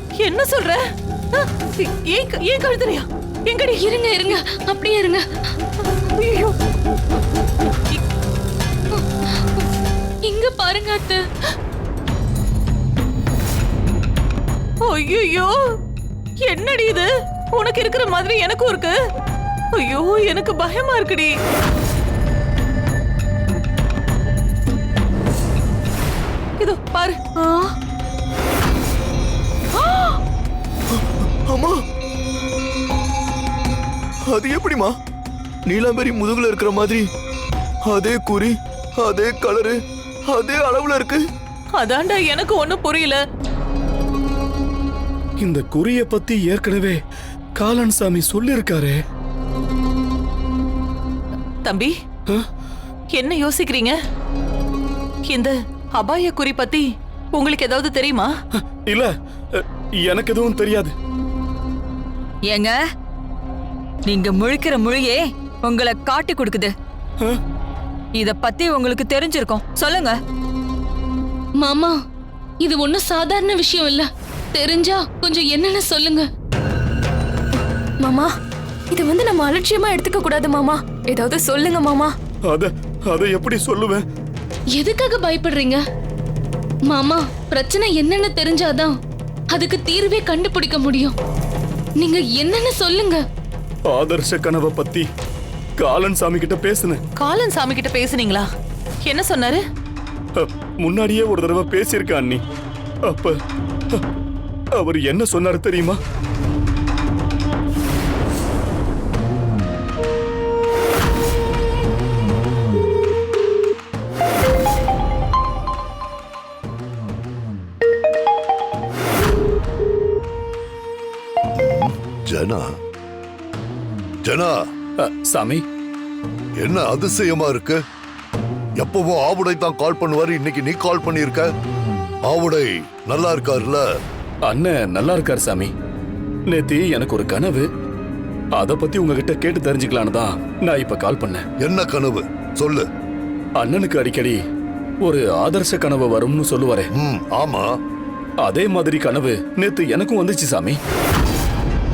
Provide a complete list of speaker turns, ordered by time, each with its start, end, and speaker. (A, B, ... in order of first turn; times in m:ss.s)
0:00.2-0:00.8 A
0:01.3-0:03.8 A
0:03.8-0:05.2 B
0:06.2-0:06.6 A
0:10.3-0:11.2 B
0:14.8-0:15.5 A
0:16.4-0:19.0 A
0:19.7-0:21.3 A
0:26.6-0:27.2 A
0:29.8-0:30.2 A
0:30.9-0:31.8 C
0:34.3-0:34.9 C
0:35.7-0:37.0 C
0:37.9-0:39.8 C
0:40.3-0:41.2 C
0:41.8-0:43.2 A
0:45.4-0:47.0 D
0:47.6-0:49.0 D
0:51.6-0:51.9 A
0:53.1-0:54.0 A
0:55.3-0:58.3 A
0:58.6-1:00.9 D
1:02.5-1:02.8 E
1:04.0-1:06.7 E
1:08.2-1:10.2 E
1:11.6-1:11.9 B
1:12.6-1:16.3 B
1:18.0-1:18.3 F
1:18.9-1:22.1 F
1:22.5-1:24.0 D
1:24.7-1:25.8 B
1:26.9-1:29.0 B
1:29.5-1:31.1 B
1:32.0-1:33.2 B
1:33.9-1:35.1 D
1:35.8-1:37.0 D
1:37.2-1:38.4 A
1:39.0-1:39.6 A
1:40.4-1:42.4 D
1:43.0-1:43.4 D
1:44.8-1:46.0 D
2:01.5-2:02.7 G
2:04.2-2:04.6 G
2:05.0-2:05.6 D
2:06.6-2:07.8 G
2:08.8-2:11.5 G
2:12.2-2:13.8 G
2:14.4-2:15.7 D
2:16.5-2:17.7 D
2:18.6-2:21.4 D
2:21.6-2:22.9 G
2:23.6-2:24.4 D
2:25.0-2:26.9 D
2:26.9-2:27.7 G
2:28.4-2:30.8 D